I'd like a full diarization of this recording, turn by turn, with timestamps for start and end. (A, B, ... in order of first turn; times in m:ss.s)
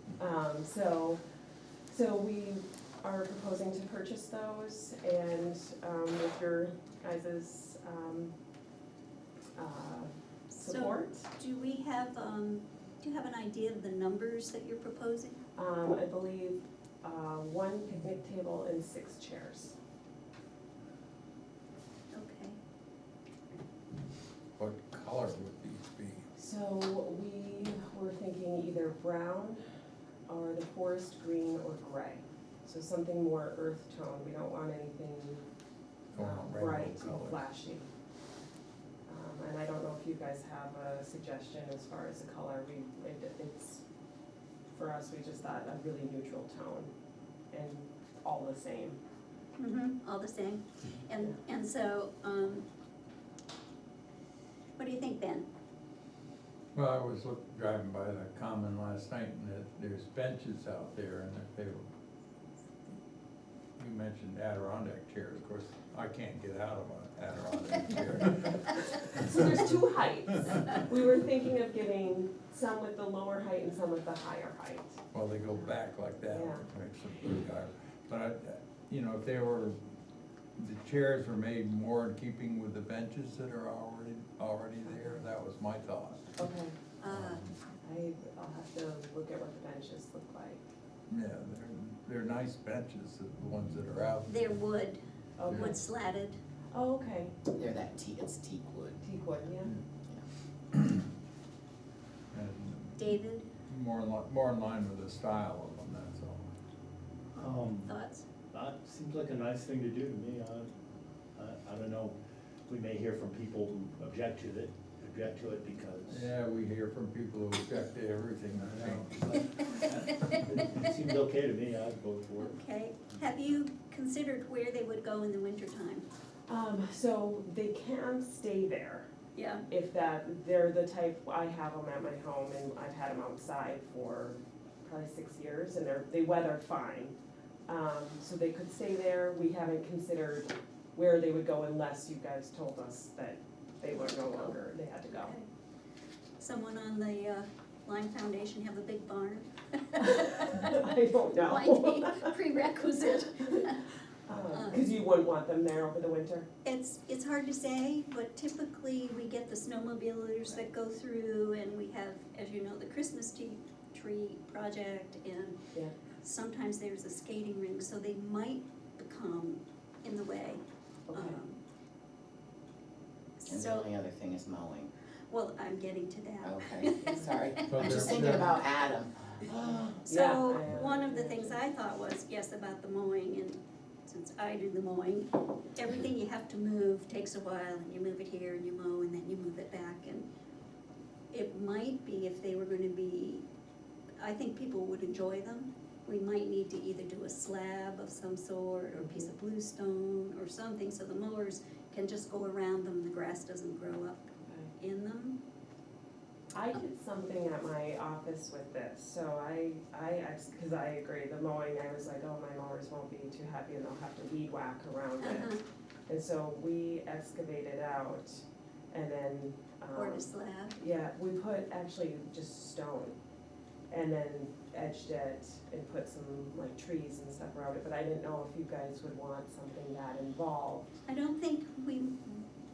0:00.2-0:01.2 A
0:01.9-0:08.3 A
0:09.6-0:11.3 A
0:10.6-0:15.4 B
0:15.6-0:19.8 A
0:22.2-0:22.5 B
0:24.6-0:26.2 C
0:26.4-0:29.6 A
0:30.3-0:35.4 A
0:36.1-0:37.4 C
0:36.2-0:37.9 A
0:39.1-0:43.8 A
0:44.7-0:46.9 A
0:47.5-0:49.0 A
0:49.6-0:52.7 B
0:54.8-0:55.5 B
0:56.8-1:01.9 C
1:03.8-1:09.4 C
1:09.1-1:15.0 A
1:15.1-1:19.8 C
1:16.3-1:16.7 A
1:20.6-1:26.4 C
1:24.8-1:25.2 A
1:26.4-1:26.8 A
1:27.0-1:27.4 B
1:27.1-1:27.5 C
1:27.8-1:30.6 A
1:31.1-1:34.6 C
1:34.3-1:35.0 B
1:35.4-1:35.8 A
1:35.5-1:35.8 C
1:35.6-1:36.4 B
1:36.7-1:37.3 A
1:37.5-1:39.0 D
1:39.0-1:39.7 A
1:40.7-1:41.0 C
1:42.3-1:46.5 C
1:43.1-1:43.5 B
1:47.4-1:48.0 E
1:47.9-1:48.2 B
1:48.5-1:50.7 E
1:51.4-1:56.3 E
1:56.1-1:59.1 C
1:58.6-2:03.5 E
2:02.4-2:06.0 B
2:06.5-2:09.1 A
2:09.7-2:17.2 A
2:17.7-2:25.4 A
2:26.4-2:29.5 B
2:30.0-2:32.3 A
2:30.0-2:30.5 B
2:31.5-2:33.8 B
2:33.4-2:33.7 A
2:34.3-2:36.5 A
2:36.6-2:45.6 B
2:46.2-2:50.6 B
2:51.1-2:51.4 A
2:51.1-2:51.6 B
2:53.5-2:53.9 B
2:53.5-2:54.9 D
2:55.3-2:57.2 B
2:56.4-3:00.0 D
2:57.7-2:58.6 C
2:59.6-3:01.6 A
3:00.1-3:10.3 B
3:11.3-3:13.4 B
3:14.2-3:25.4 B
3:18.9-3:19.3 A
3:24.5-3:24.7 A
3:26.6-3:43.2 A
3:35.2-3:35.6 B
3:39.9-3:40.8 B
3:43.9-3:51.0 A
3:51.1-3:52.5 B